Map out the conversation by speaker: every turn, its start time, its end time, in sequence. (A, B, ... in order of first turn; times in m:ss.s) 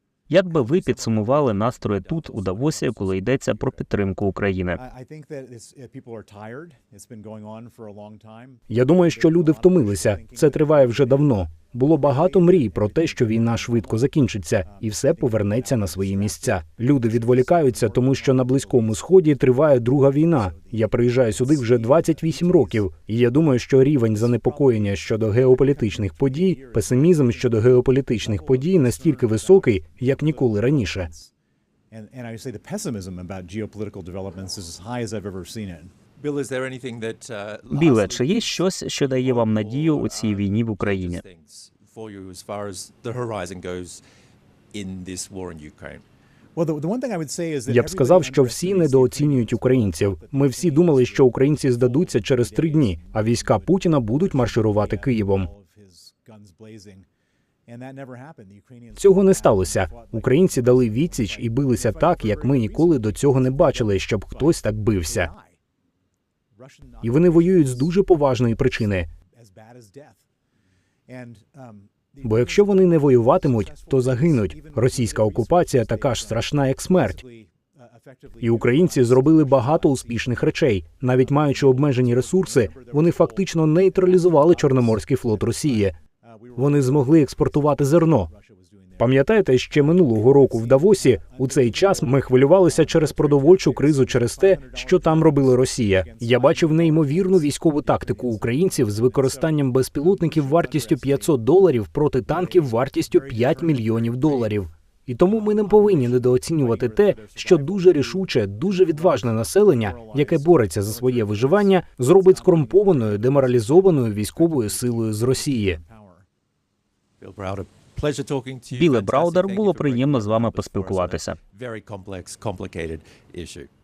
0:00.3-0:04.8 A
0:00.8-0:03.0 B
0:04.7-0:11.4 B
0:08.7-0:31.1 C
0:12.0-0:14.0 B
0:14.6-0:19.0 B
0:20.2-0:22.8 B
0:23.9-0:31.3 B
0:31.9-0:35.9 B
0:36.2-0:44.0 D
0:37.7-0:41.2 A
0:44.7-0:46.0 D
0:46.6-0:57.0 B
0:47.6-0:55.5 C
0:57.7-1:05.6 B
0:59.0-1:05.3 C
1:06.6-1:08.0 B
1:07.0-1:09.1 C
1:09.3-1:10.2 B
1:11.1-1:20.5 B
1:12.2-1:17.2 C
1:18.4-1:25.9 C
1:21.2-1:29.2 B
1:26.6-1:28.3 C
1:29.0-1:55.8 C
1:29.7-1:41.4 B
1:42.3-1:44.6 B
1:45.3-1:56.2 B
1:57.2-2:03.7 D
1:58.7-2:01.4 A